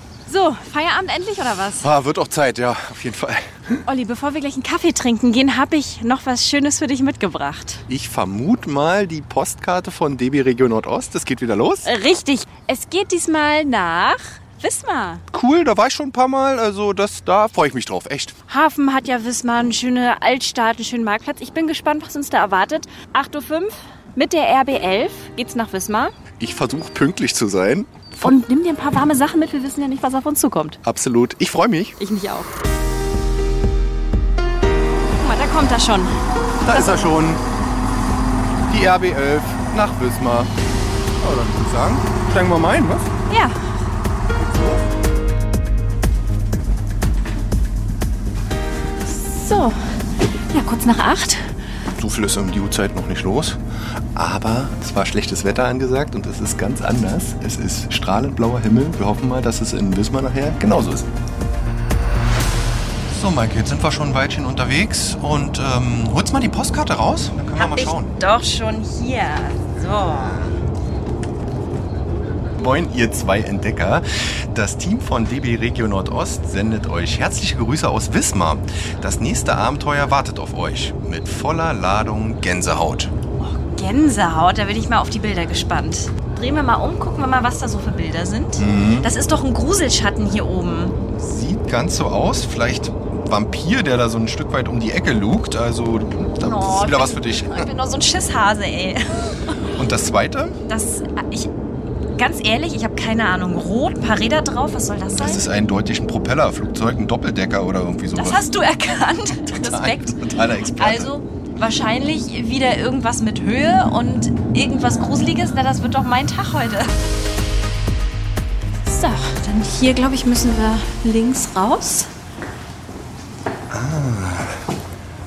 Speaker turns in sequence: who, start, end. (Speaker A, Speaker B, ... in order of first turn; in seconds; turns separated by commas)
Speaker A: 0.3-1.9, Speaker B: 1.8-3.8, Speaker A: 3.9-7.8, Speaker B: 7.9-11.9, Speaker A: 11.8-15.2, Speaker B: 15.3-18.3, Speaker A: 18.5-26.1, Speaker B: 26.4-28.4, Speaker A: 28.2-30.8, Speaker B: 30.8-32.0, Speaker A: 32.0-32.5, Speaker A: 35.2-36.2, Speaker B: 36.6-37.4, Speaker A: 36.7-37.0, Speaker B: 38.7-40.5, Speaker B: 41.2-43.1, Speaker A: 43.3-43.6, Speaker B: 44.4-44.9, Speaker A: 49.0-49.8, Speaker A: 50.5-51.5, Speaker B: 52.0-53.6, Speaker B: 54.1-61.1, Speaker B: 63.1-68.1, Speaker A: 67.5-70.4, Speaker B: 72.6-83.1, Speaker A: 83.4-91.0, Speaker B: 88.6-89.1, Speaker B: 91.1-97.7, Speaker A: 96.4-99.3, Speaker B: 99.7-100.6, Speaker A: 100.7-101.5, Speaker A: 102.2-105.4, Speaker B: 105.1-108.5, Speaker A: 108.1-110.2, Speaker B: 109.5-111.1, Speaker A: 110.7-116.9, Speaker A: 118.8-122.1, Speaker B: 123.7-124.6